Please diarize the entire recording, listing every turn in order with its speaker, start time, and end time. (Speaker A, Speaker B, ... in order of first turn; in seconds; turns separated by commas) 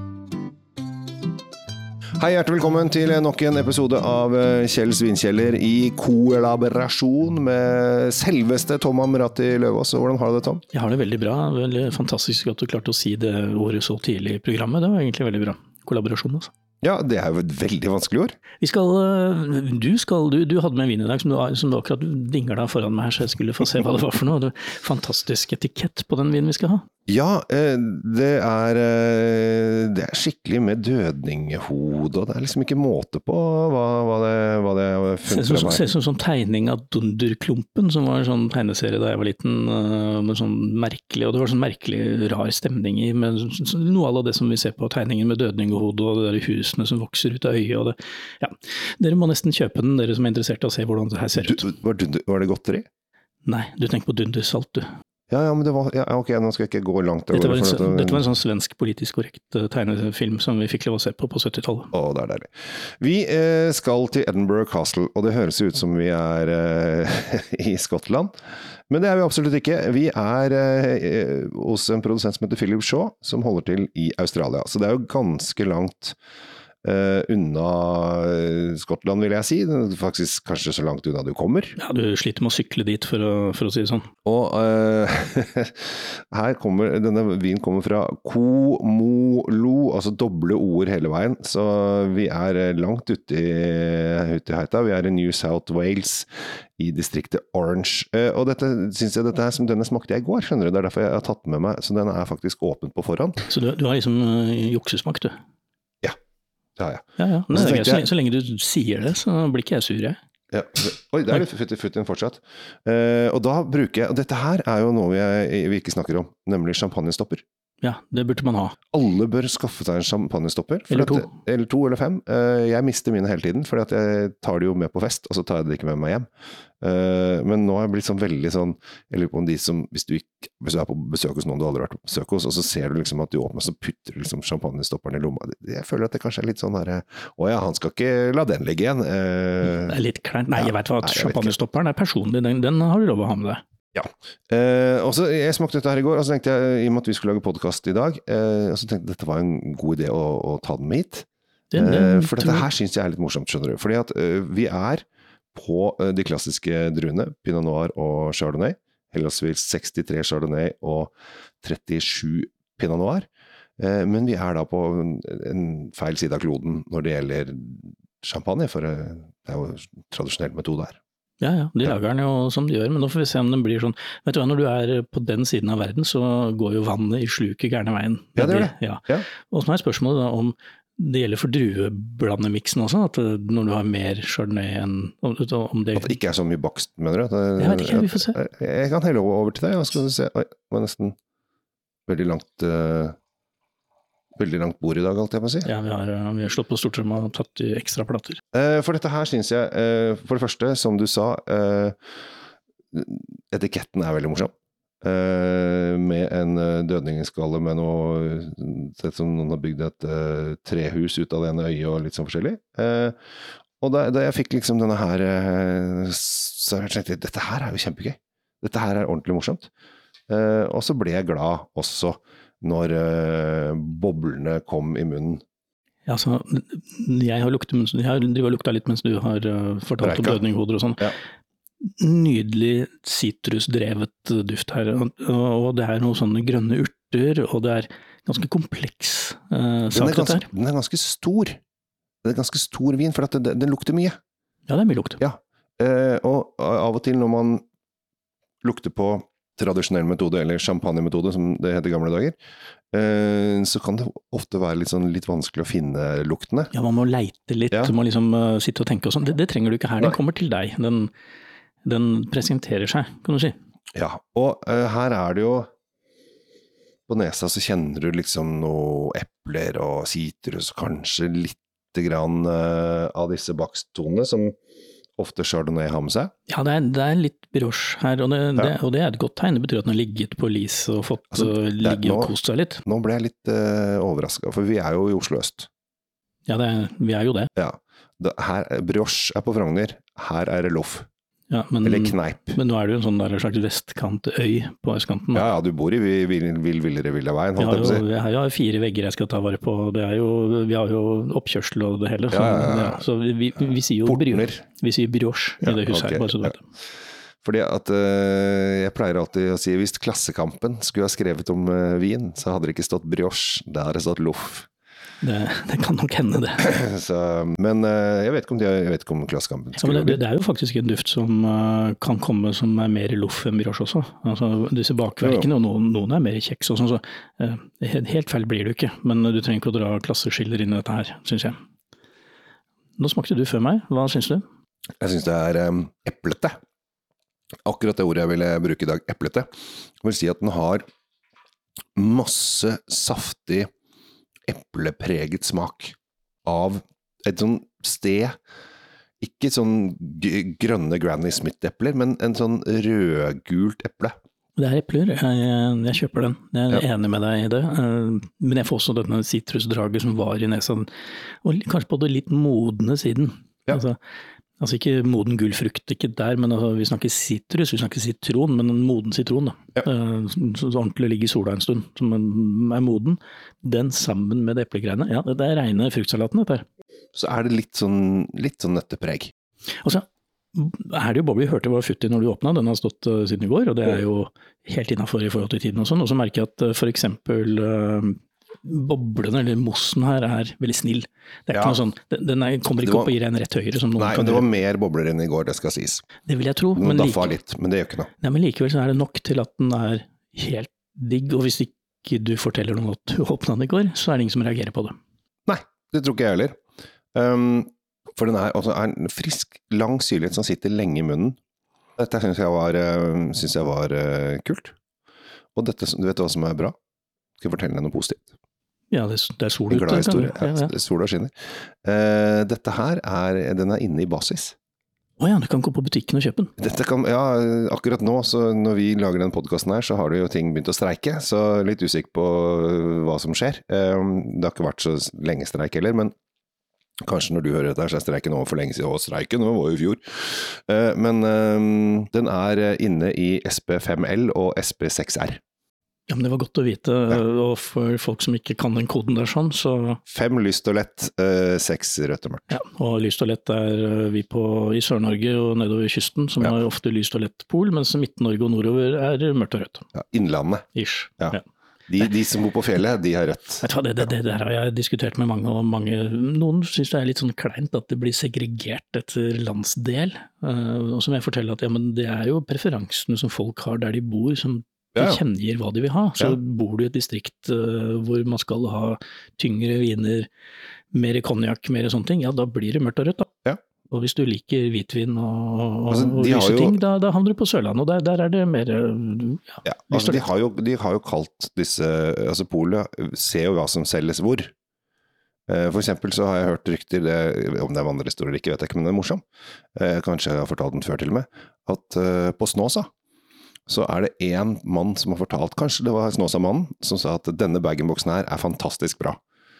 Speaker A: 2.2-10.6, Speaker B: 10.7-16.5, Speaker A: 16.8-18.4, Speaker B: 18.6-26.9, Speaker A: 27.1-35.9, Speaker B: 35.3-51.6, Speaker A: 51.4-52.9, Speaker B: 53.5-54.9, Speaker A: 55.3-58.2, Speaker B: 57.3-61.9, Speaker A: 61.9-68.3, Speaker A: 68.9-76.2, Speaker A: 76.8-81.8, Speaker B: 81.8-84.1, Speaker A: 84.2-103.5, Speaker B: 103.5-105.3, Speaker A: 106.8-108.1, Speaker B: 107.2-110.2, Speaker A: 110.5-117.4, Speaker B: 117.8-118.8, Speaker A: 118.9-126.3, Speaker B: 120.9-121.3, Speaker A: 126.8-140.0, Speaker B: 139.7-143.6, Speaker A: 140.6-141.5, Speaker A: 143.9-163.3, Speaker B: 151.7-152.7, Speaker A: 163.8-171.0, Speaker B: 171.4-186.1, Speaker A: 178.4-179.3, Speaker A: 185.9-191.2, Speaker B: 187.6-188.4, Speaker A: 192.1-193.2, Speaker A: 194.4-195.7, Speaker B: 195.7-198.4, Speaker A: 198.5-202.0, Speaker A: 202.9-213.2, Speaker A: 213.8-219.7, Speaker A: 220.3-225.4, Speaker B: 226.1-231.1, Speaker A: 230.0-230.4, Speaker B: 231.8-240.5, Speaker A: 239.9-241.6, Speaker A: 242.2-244.2, Speaker B: 244.7-245.2, Speaker A: 245.2-247.6, Speaker A: 248.6-252.4, Speaker A: 252.9-256.7, Speaker B: 256.7-261.1, Speaker B: 261.9-263.6, Speaker A: 263.9-265.7, Speaker A: 267.1-274.6, Speaker A: 275.2-276.3, Speaker B: 276.5-282.8, Speaker A: 281.3-282.3, Speaker A: 282.9-285.7, Speaker B: 286.5-287.5, Speaker A: 287.6-291.1, Speaker B: 291.5-295.5, Speaker A: 291.8-292.6, Speaker A: 295.3-298.1, Speaker B: 297.6-306.6, Speaker A: 302.3-303.0, Speaker A: 304.1-304.6, Speaker A: 305.6-306.6, Speaker A: 307.4-314.7, Speaker B: 315.2-316.6, Speaker A: 316.6-320.2, Speaker B: 319.8-331.6, Speaker A: 325.2-325.5, Speaker B: 333.0-334.4, Speaker A: 335.0-336.6, Speaker A: 337.7-339.5, Speaker A: 340.0-340.8, Speaker A: 342.0-343.7, Speaker A: 344.5-348.4, Speaker A: 349.2-354.1, Speaker B: 354.6-360.9, Speaker B: 361.4-364.0, Speaker B: 364.6-376.6, Speaker A: 377.1-379.3, Speaker B: 379.8-394.5, Speaker A: 391.5-391.8, Speaker A: 392.8-393.1, Speaker A: 394.0-396.1, Speaker B: 396.3-397.4, Speaker A: 396.8-398.1, Speaker B: 398.2-404.9, Speaker A: 405.5-406.6, Speaker A: 407.1-411.4, Speaker A: 412.0-414.8, Speaker A: 415.6-416.8, Speaker A: 417.4-418.3, Speaker B: 418.9-420.7, Speaker A: 419.7-421.3, Speaker A: 421.8-424.6, Speaker B: 425.2-426.5, Speaker A: 426.6-436.1, Speaker A: 437.1-445.4, Speaker B: 446.1-450.0, Speaker A: 450.1-452.5, Speaker B: 452.5-459.9, Speaker A: 459.9-460.7, Speaker B: 460.8-461.4, Speaker A: 461.2-464.1, Speaker B: 463.6-480.3, Speaker A: 474.9-475.2, Speaker B: 480.9-483.3, Speaker B: 483.9-490.2, Speaker A: 485.9-486.8, Speaker A: 489.6-494.5, Speaker A: 495.5-499.2, Speaker A: 499.8-502.9, Speaker A: 503.7-509.2